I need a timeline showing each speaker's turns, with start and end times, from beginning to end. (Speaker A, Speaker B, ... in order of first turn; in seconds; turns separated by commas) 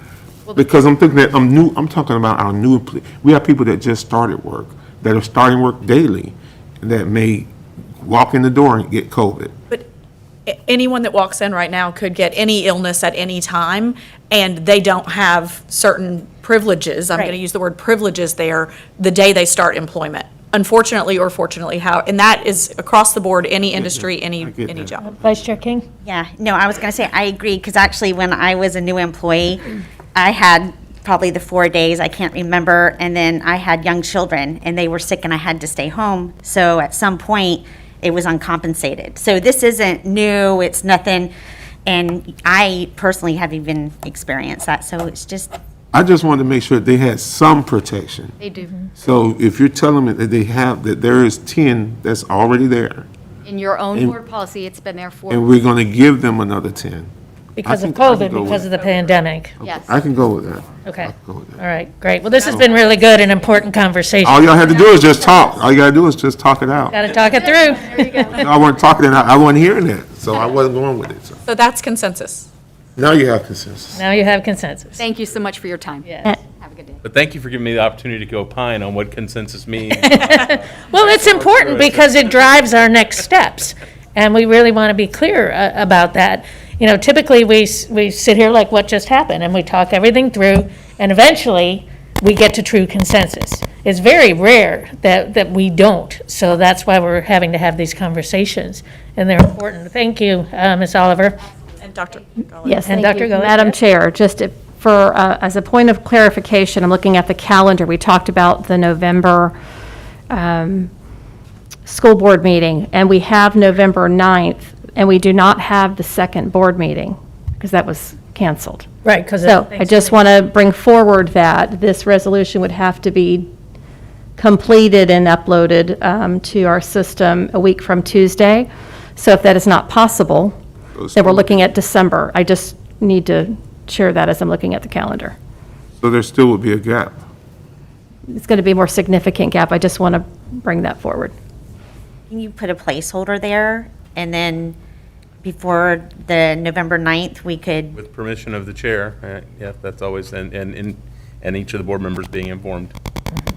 Speaker A: 0.5-9.5, Speaker B: 10.5-25.1, Speaker C: 17.1-17.4, Speaker A: 23.8-24.9, Speaker D: 25.0-25.9, Speaker C: 26.1-29.6, Speaker C: 30.1-41.3, Speaker C: 41.9-45.5, Speaker A: 45.9-48.4, Speaker E: 48.4-48.8, Speaker A: 49.0-53.1, Speaker E: 53.5-55.5, Speaker A: 55.3-57.1, Speaker D: 57.6-59.6, Speaker A: 57.6-58.7, Speaker E: 59.6-59.9, Speaker A: 59.6-61.6, Speaker D: 60.9-64.8, Speaker A: 64.2-67.0, Speaker D: 66.9-68.4, Speaker A: 68.4-71.4, Speaker B: 71.5-72.5, Speaker A: 73.0-74.0, Speaker D: 74.0-75.0, Speaker E: 75.0-77.0, Speaker F: 77.0-80.1, Speaker D: 80.0-101.4, Speaker B: 80.2-80.5, Speaker F: 81.0-82.0, Speaker B: 101.8-102.9, Speaker G: 102.7-109.5, Speaker D: 102.8-103.8, Speaker G: 110.3-110.9, Speaker G: 111.9-118.9, Speaker D: 119.0-120.3, Speaker G: 119.4-123.5, Speaker G: 124.4-130.6, Speaker A: 131.0-131.7, Speaker G: 131.2-135.4, Speaker A: 136.0-137.2, Speaker G: 138.3-141.3, Speaker C: 142.3-144.8, Speaker C: 145.4-147.9, Speaker F: 147.9-152.9